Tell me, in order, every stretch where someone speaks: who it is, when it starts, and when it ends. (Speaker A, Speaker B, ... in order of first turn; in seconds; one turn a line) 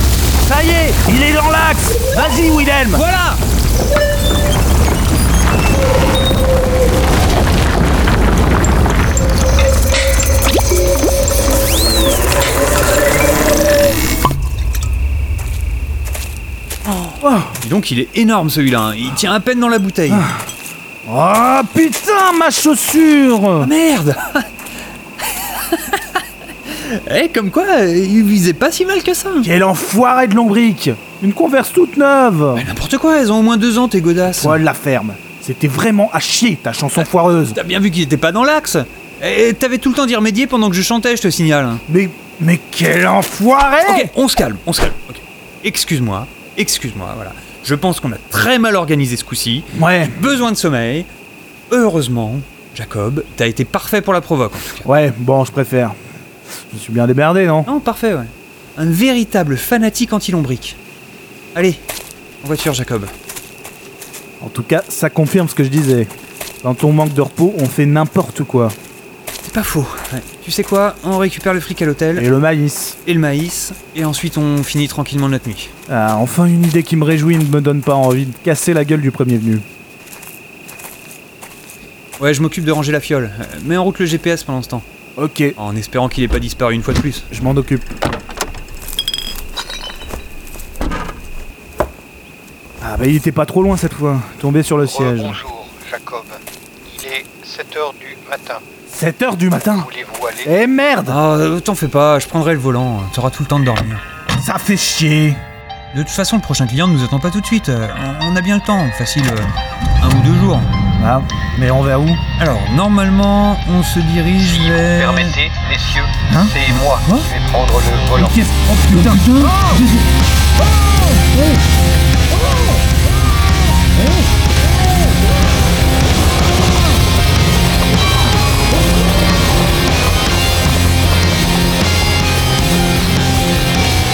Speaker A: 0.4-3.0
Speaker B: 2.9-3.4
Speaker B: 16.8-20.2
Speaker A: 17.2-17.6
Speaker A: 20.1-20.4
Speaker A: 21.1-23.7
Speaker B: 23.6-24.5
Speaker B: 25.4-29.5
Speaker A: 29.4-32.6
Speaker B: 32.5-34.6
Speaker A: 34.3-37.6
Speaker B: 37.0-41.8
Speaker A: 41.9-44.1
Speaker B: 43.8-51.1
Speaker A: 49.7-50.3
Speaker B: 51.7-54.8
Speaker A: 54.8-55.9
Speaker A: 56.7-57.7
Speaker B: 57.6-60.8
Speaker B: 61.5-61.8
Speaker B: 62.4-63.1
Speaker A: 64.4-66.1
Speaker A: 66.6-68.8
Speaker B: 69.4-72.3
Speaker A: 72.2-73.0
Speaker B: 73.0-75.7
Speaker A: 75.9-79.6
Speaker B: 82.2-84.8
Speaker A: 85.2-85.5
Speaker B: 85.6-87.3
Speaker A: 87.3-87.9
Speaker A: 92.8-95.4
Speaker C: 94.8-98.6
Speaker A: 98.9-101.2
Speaker C: 99.7-100.5
Speaker B: 101.0-104.0
Speaker A: 104.3-105.4
Speaker B: 105.9-109.5
Speaker B: 110.0-110.7
Speaker A: 111.0-112.2
Speaker B: 112.4-115.4
Speaker C: 114.7-118.3
Speaker A: 116.3-116.5
Speaker B: 116.5-117.3
Speaker A: 118.2-119.9
Speaker B: 119.5-119.8